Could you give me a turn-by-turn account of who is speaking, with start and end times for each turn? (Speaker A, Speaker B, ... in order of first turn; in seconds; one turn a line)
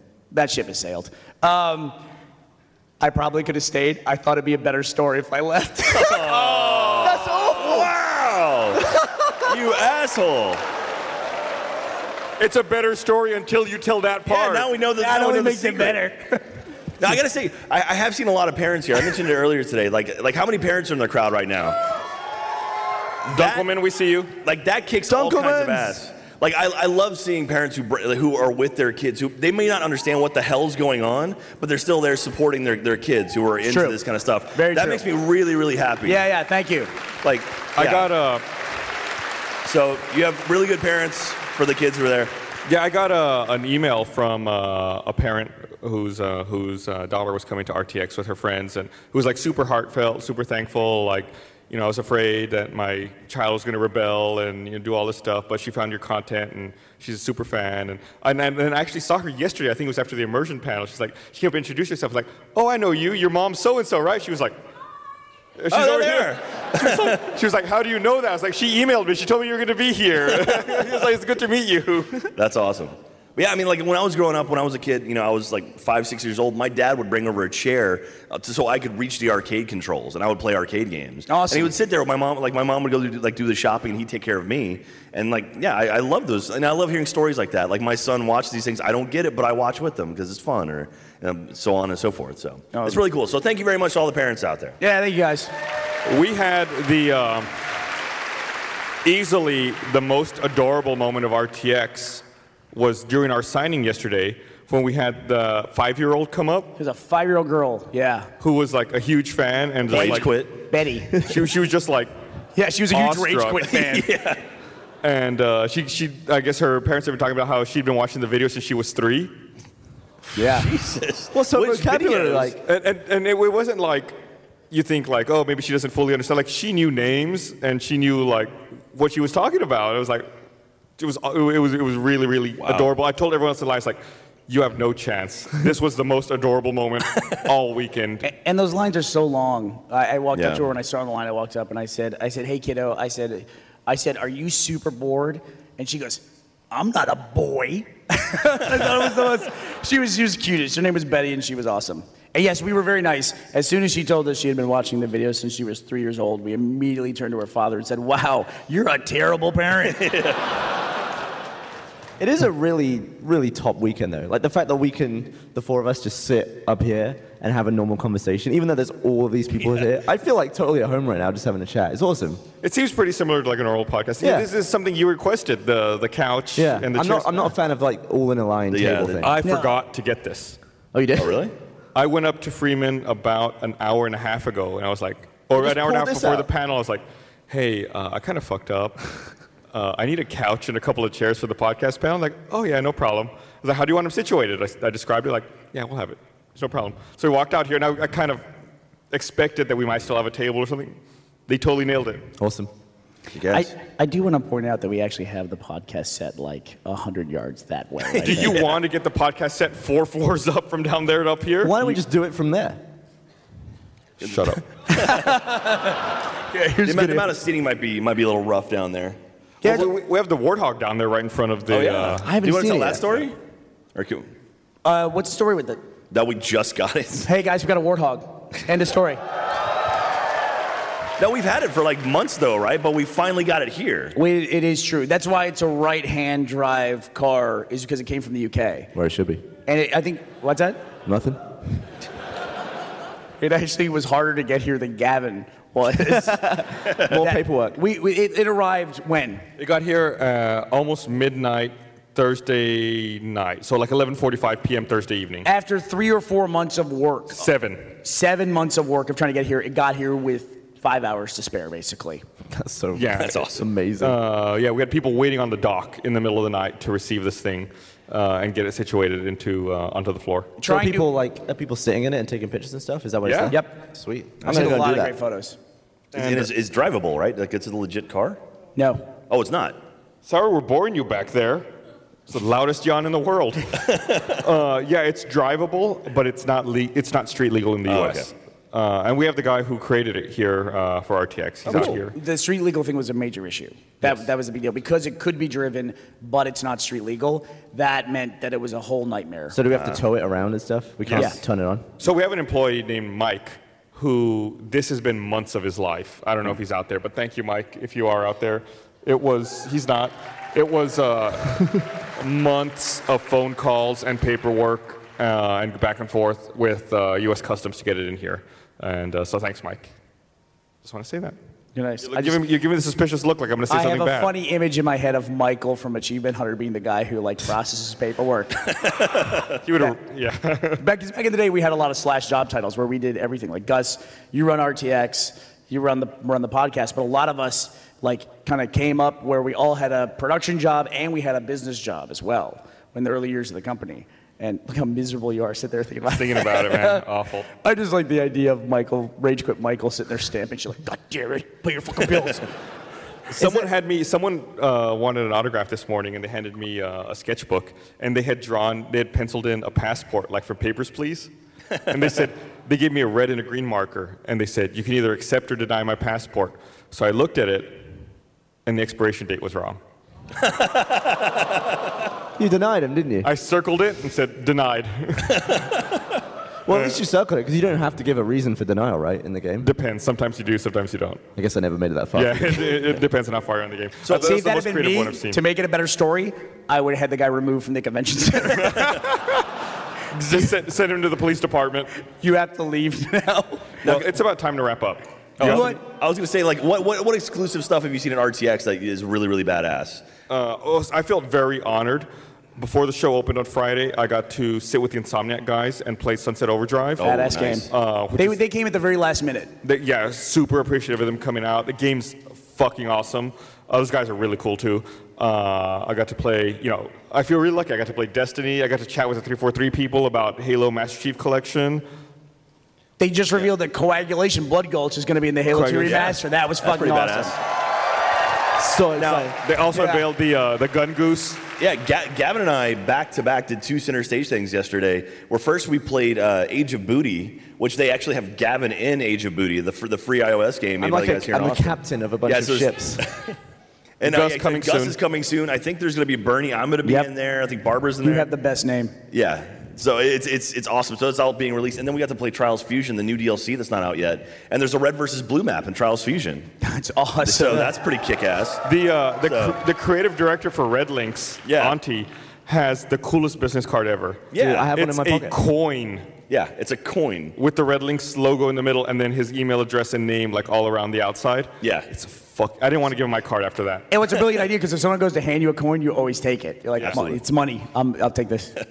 Speaker A: 0.3-2.0
Speaker A: 3.0-6.3
Speaker B: 5.9-8.8
Speaker C: 6.3-7.2
Speaker A: 7.1-7.9
Speaker B: 9.4-10.6
Speaker C: 12.4-14.7
Speaker B: 14.3-16.0
Speaker A: 15.0-16.4
Speaker B: 17.0-21.8
Speaker B: 23.3-23.7
Speaker C: 23.3-24.4
Speaker B: 24.4-36.2
Speaker D: 25.1-26.0
Speaker A: 33.6-34.0
Speaker A: 34.5-35.1
Speaker A: 36.0-36.9
Speaker B: 37.2-38.1
Speaker C: 37.8-38.5
Speaker B: 39.6-42.3
Speaker C: 42.7-64.5
Speaker C: 65.6-72.3
Speaker B: 65.7-67.2
Speaker B: 70.5-70.7
Speaker B: 72.4-94.8
Speaker A: 81.3-81.7
Speaker A: 92.7-93.0
Speaker A: 94.8-95.5
Speaker C: 96.0-97.5
Speaker C: 99.0-106.8
Speaker A: 106.8-108.3
Speaker C: 108.4-110.5
Speaker B: 109.9-110.6
Speaker A: 109.9-111.2
Speaker C: 111.2-112.1
Speaker A: 112.6-114.1
Speaker C: 112.9-113.8
Speaker B: 113.7-114.4
Speaker C: 115.0-119.3
Speaker A: 120.3-120.7
Speaker B: 120.4-122.5
Speaker D: 121.3-122.6
Speaker C: 122.6-124.2
Speaker C: 124.7-130.3
Speaker C: 131.0-138.2
Speaker B: 132.6-132.9
Speaker A: 138.2-160.1
Speaker B: 140.3-140.6
Speaker B: 160.0-160.4
Speaker D: 162.2-172.4
Speaker C: 172.6-177.5
Speaker D: 174.2-174.5
Speaker D: 176.6-179.3
Speaker B: 178.7-179.3
Speaker C: 179.2-180.6
Speaker A: 179.4-179.7
Speaker D: 180.9-181.4
Speaker B: 181.2-181.5
Speaker C: 181.9-198.4
Speaker D: 185.5-186.5
Speaker C: 199.1-202.2
Speaker D: 202.4-202.7
Speaker B: 203.3-203.7
Speaker A: 203.5-208.6
Speaker C: 208.2-212.0
Speaker B: 208.2-208.7
Speaker D: 211.6-212.8
Speaker C: 214.2-214.6
Speaker B: 214.2-215.3
Speaker A: 214.9-217.3
Speaker B: 216.8-219.2
Speaker A: 219.6-219.9
Speaker C: 219.6-222.3
Speaker B: 221.7-223.4
Speaker D: 222.1-223.3
Speaker B: 223.9-224.3
Speaker A: 224.8-225.8
Speaker B: 226.1-227.3
Speaker A: 227.2-229.2
Speaker B: 231.2-234.1
Speaker A: 234.2-238.9
Speaker D: 238.9-239.4
Speaker A: 239.7-240.8
Speaker D: 241.1-241.4
Speaker A: 243.4-249.4
Speaker D: 246.1-247.8
Speaker C: 249.6-255.5
Speaker A: 255.4-257.5
Speaker C: 257.4-257.9
Speaker A: 258.0-262.2
Speaker D: 262.5-264.2
Speaker C: 262.9-270.5
Speaker B: 263.1-263.6
Speaker A: 270.6-271.1
Speaker D: 270.6-275.1
Speaker C: 273.2-273.5
Speaker A: 274.4-275.6
Speaker C: 276.1-276.5
Speaker B: 276.1-278.4
Speaker A: 278.8-279.0
Speaker B: 279.3-279.8
Speaker C: 280.2-281.7
Speaker C: 282.3-292.1
Speaker B: 283.8-284.4
Speaker B: 287.9-288.3
Speaker A: 291.7-299.6
Speaker B: 291.7-292.0
Speaker D: 299.5-301.9
Speaker B: 299.7-300.0
Speaker C: 301.1-301.4
Speaker C: 302.0-319.9
Speaker C: 320.8-321.4
Speaker A: 321.8-322.4
Speaker C: 322.0-324.3
Speaker A: 323.7-328.6
Speaker B: 328.8-329.5
Speaker C: 329.5-330.8
Speaker A: 330.8-347.0
Speaker C: 346.1-347.5
Speaker A: 347.6-352.5
Speaker C: 353.3-361.3
Speaker A: 353.4-353.7
Speaker C: 361.9-367.9
Speaker C: 368.7-369.8
Speaker B: 370.4-371.1
Speaker D: 372.4-373.3
Speaker C: 373.2-375.7
Speaker D: 376.7-379.7
Speaker C: 376.7-377.0
Speaker C: 379.6-381.2
Speaker D: 381.4-383.0
Speaker C: 382.1-385.4
Speaker B: 384.1-384.3
Speaker A: 384.1-389.1
Speaker C: 388.5-389.4
Speaker C: 390.1-391.9
Speaker A: 392.2-393.7
Speaker B: 393.8-394.1
Speaker C: 393.9-395.8
Speaker A: 395.4-395.8
Speaker B: 395.4-400.1
Speaker C: 400.3-408.4
Speaker B: 407.0-407.6
Speaker A: 407.0-409.5
Speaker C: 409.6-421.8
Speaker A: 423.0-427.4
Speaker C: 425.5-426.2
Speaker B: 425.8-427.4
Speaker D: 428.6-429.4
Speaker B: 429.0-429.4
Speaker C: 429.4-431.4
Speaker A: 429.7-430.0
Speaker B: 431.6-443.4
Speaker D: 440.8-443.1
Speaker B: 444.0-448.3
Speaker C: 444.0-445.0
Speaker A: 446.8-447.1
Speaker A: 448.0-448.9
Speaker B: 449.1-456.5
Speaker A: 456.6-457.7
Speaker B: 457.2-458.6
Speaker C: 458.6-466.1
Speaker B: 459.2-459.6
Speaker B: 461.4-461.8
Speaker B: 464.3-464.7
Speaker D: 464.4-465.4
Speaker B: 466.3-467.4
Speaker C: 467.4-473.9
Speaker B: 471.6-471.9
Speaker A: 473.9-478.5
Speaker B: 476.8-477.2